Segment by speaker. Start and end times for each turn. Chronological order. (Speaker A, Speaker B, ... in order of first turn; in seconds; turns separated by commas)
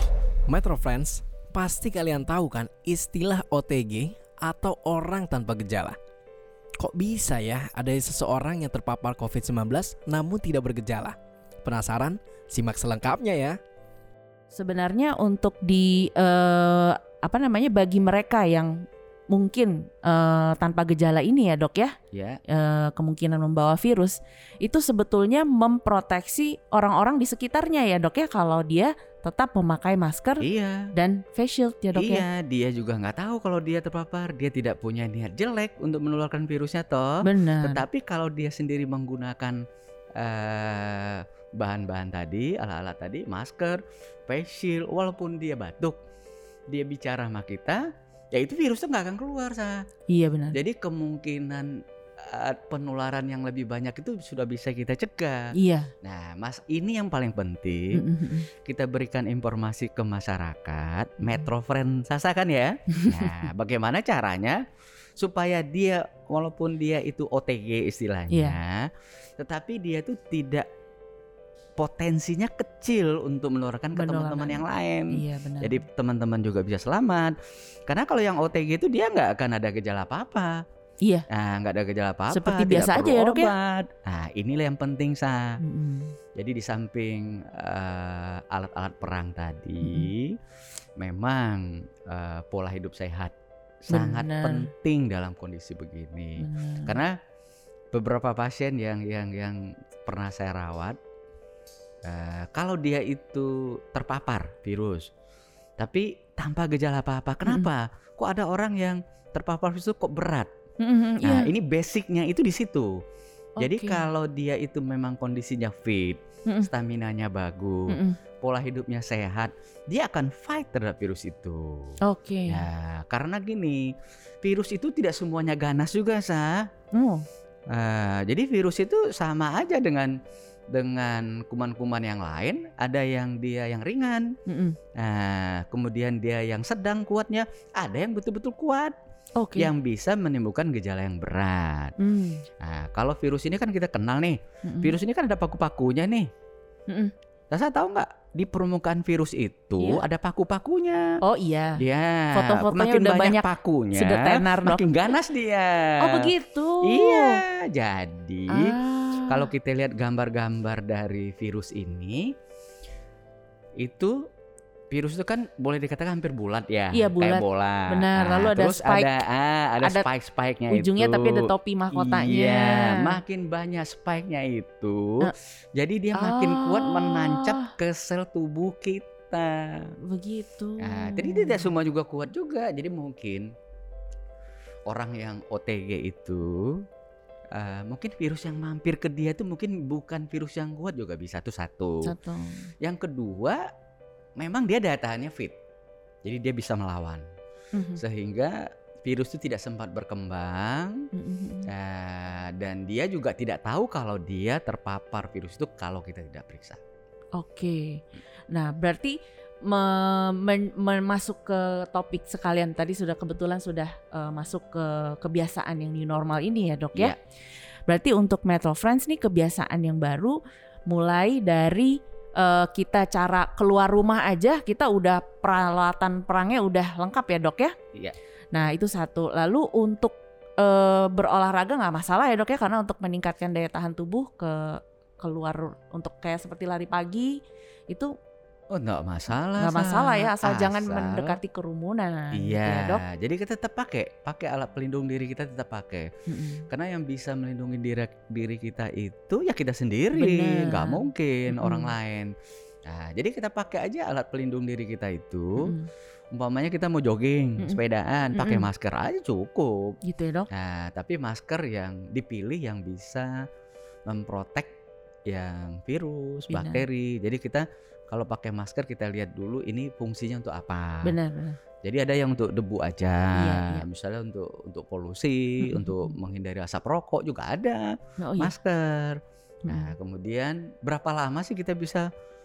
Speaker A: 0.5-6.0, Speaker A: 6.8-13.6, Speaker B: 14.5-21.9, Speaker C: 22.1-22.4, Speaker B: 22.5-32.2, Speaker C: 30.4-30.9, Speaker C: 31.9-39.6, Speaker B: 37.2-37.9, Speaker C: 40.2-45.9, Speaker C: 46.7-49.8, Speaker B: 50.1-50.6, Speaker C: 50.5-51.7, Speaker C: 52.2-55.5, Speaker B: 55.5-55.9, Speaker C: 56.0-58.0, Speaker B: 57.9-58.5, Speaker C: 58.6-64.6, Speaker B: 61.2-61.5, Speaker B: 62.9-63.5, Speaker C: 65.2-70.7, Speaker B: 68.3-68.6, Speaker C: 71.8-77.3, Speaker B: 73.9-75.8, Speaker C: 77.9-80.5, Speaker B: 81.0-81.2, Speaker C: 81.3-85.6, Speaker B: 82.3-83.5, Speaker B: 85.6-86.1, Speaker C: 86.3-90.4, Speaker B: 89.8-90.1, Speaker C: 91.0-97.1, Speaker B: 93.9-94.7, Speaker B: 96.4-97.0, Speaker C: 97.9-101.0, Speaker C: 102.0-105.1, Speaker C: 105.8-110.5, Speaker B: 110.8-111.5, Speaker C: 111.2-112.9, Speaker B: 113.6-114.1, Speaker C: 113.6-122.0, Speaker B: 117.9-118.2, Speaker B: 122.0-122.7, Speaker C: 122.5-123.9, Speaker C: 124.4-126.7, Speaker B: 126.9-127.2, Speaker C: 127.7-130.1, Speaker C: 130.7-134.3, Speaker B: 134.5-134.8, Speaker C: 135.0-138.9, Speaker B: 139.4-139.7, Speaker C: 139.6-141.9, Speaker B: 142.0-142.4, Speaker C: 142.6-146.3, Speaker B: 144.6-145.0, Speaker C: 147.5-151.2, Speaker B: 149.8-150.0, Speaker B: 151.2-155.1, Speaker C: 151.8-156.3, Speaker B: 156.0-157.4, Speaker C: 156.8-162.3, Speaker B: 158.5-159.5, Speaker C: 163.8-164.2, Speaker C: 164.9-179.9, Speaker B: 166.9-169.2, Speaker B: 169.8-170.1, Speaker B: 170.7-173.2, Speaker B: 176.1-177.7, Speaker B: 180.0-181.7, Speaker C: 180.8-183.5, Speaker C: 184.9-186.8, Speaker C: 187.5-192.1, Speaker B: 192.0-192.7, Speaker C: 192.8-193.6, Speaker C: 194.4-195.6, Speaker C: 196.2-197.2, Speaker B: 197.7-198.0, Speaker C: 198.0-201.1, Speaker B: 201.1-201.7, Speaker C: 201.7-206.8, Speaker B: 207.3-217.2, Speaker B: 217.9-227.7, Speaker B: 228.5-237.4, Speaker C: 238.7-241.4, Speaker B: 239.6-243.0, Speaker C: 242.3-246.1, Speaker B: 246.3-246.6, Speaker C: 246.7-252.3, Speaker B: 250.1-251.9, Speaker C: 252.9-255.7, Speaker B: 255.6-255.9, Speaker C: 256.3-260.0, Speaker B: 258.3-258.7, Speaker B: 260.0-260.5, Speaker C: 260.5-263.4, Speaker C: 264.1-264.7, Speaker C: 265.3-271.1, Speaker B: 266.5-266.8, Speaker B: 271.0-271.6, Speaker C: 271.8-282.1, Speaker B: 273.3-273.9, Speaker B: 275.6-276.1, Speaker B: 278.2-278.5, Speaker B: 279.6-279.9